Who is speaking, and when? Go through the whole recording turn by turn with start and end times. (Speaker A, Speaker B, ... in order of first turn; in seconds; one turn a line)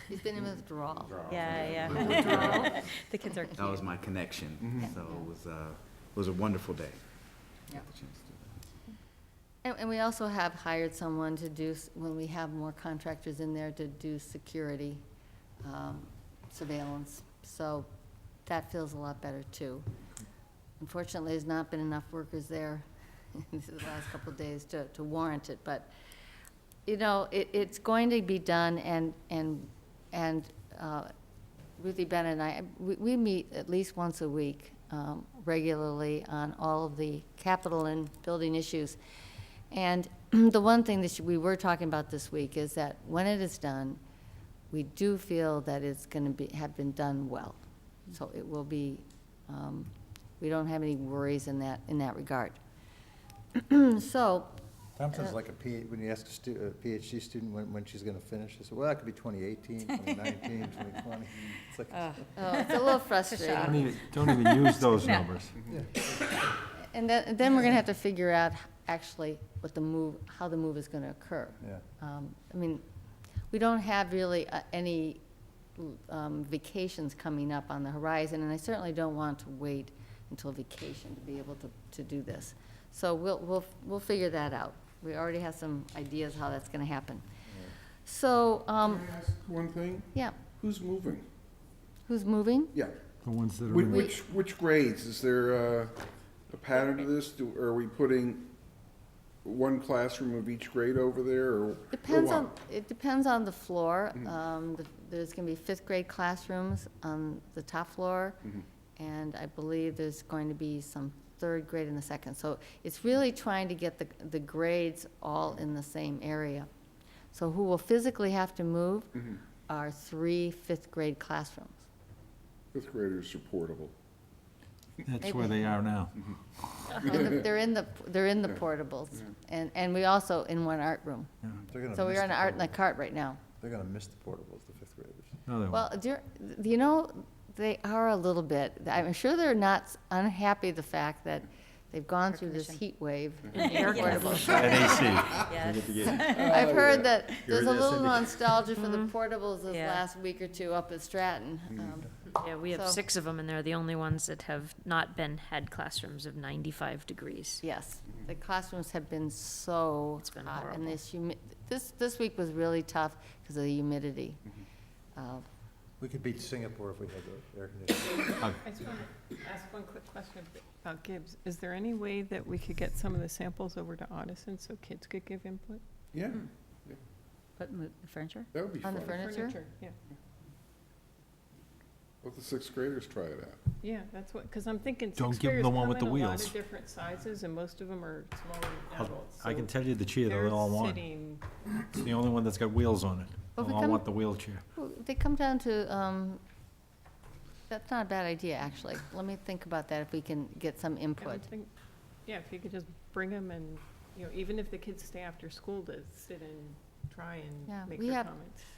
Speaker A: 0.1-1.4
Speaker B: 1.1-2.9
Speaker C: 1.3-3.7
Speaker D: 1.5-2.5
Speaker A: 2.1-2.7
Speaker D: 3.5-8.7
Speaker B: 4.6-4.9
Speaker A: 9.6-15.0
Speaker A: 15.6-17.9
Speaker A: 18.4-19.9
Speaker A: 20.8-25.9
Speaker A: 26.9-31.1
Speaker A: 31.8-39.0
Speaker A: 39.7-44.0
Speaker A: 44.7-52.6
Speaker A: 53.5-54.5
Speaker E: 55.0-62.2
Speaker C: 61.9-65.2
Speaker A: 62.4-63.9
Speaker F: 63.6-65.6
Speaker E: 65.7-66.4
Speaker A: 66.7-72.8
Speaker A: 73.5-75.2
Speaker A: 75.8-87.2
Speaker A: 88.0-89.0
Speaker B: 88.8-91.2
Speaker A: 90.1-90.4
Speaker A: 92.1-92.7
Speaker F: 93.2-94.1
Speaker B: 93.7-96.0
Speaker B: 96.5-98.5
Speaker B: 99.4-102.5
Speaker A: 101.9-108.4
Speaker A: 109.0-116.7
Speaker A: 117.3-121.8
Speaker B: 122.7-123.9
Speaker F: 125.0-126.2
Speaker A: 125.2-125.7
Speaker A: 126.9-131.3
Speaker B: 127.0-127.3
Speaker E: 131.6-132.8
Speaker A: 131.9-133.4
Speaker E: 133.6-135.4
Speaker F: 135.5-135.9
Speaker A: 135.7-145.1
Speaker C: 142.3-142.8
Speaker C: 143.5-146.6
Speaker G: 143.8-144.5
Speaker F: 144.5-146.0
Speaker E: 145.5-146.4
Speaker B: 146.2-147.1
Speaker A: 146.4-153.0
Speaker E: 147.4-148.4
Speaker G: 148.8-149.1
Speaker C: 149.7-150.0
Speaker G: 152.4-157.6
Speaker A: 157.6-164.4
Speaker G: 160.2-161.0
Speaker A: 165.1-165.4
Speaker E: 166.0-168.4
Speaker H: 168.6-175.8
Speaker B: 176.1-177.0
Speaker G: 177.7-178.5
Speaker B: 178.5-179.3
Speaker A: 178.8-179.6
Speaker H: 179.2-179.9
Speaker B: 182.2-183.6
Speaker H: 183.8-191.4
Speaker F: 185.2-186.6
Speaker F: 188.9-191.0
Speaker F: 191.9-194.6
Speaker A: 193.6-194.1
Speaker A: 194.7-196.4
Speaker A: 197.7-201.5
Speaker H: 201.2-201.7
Speaker H: 202.2-208.6
Speaker A: 207.7-208.3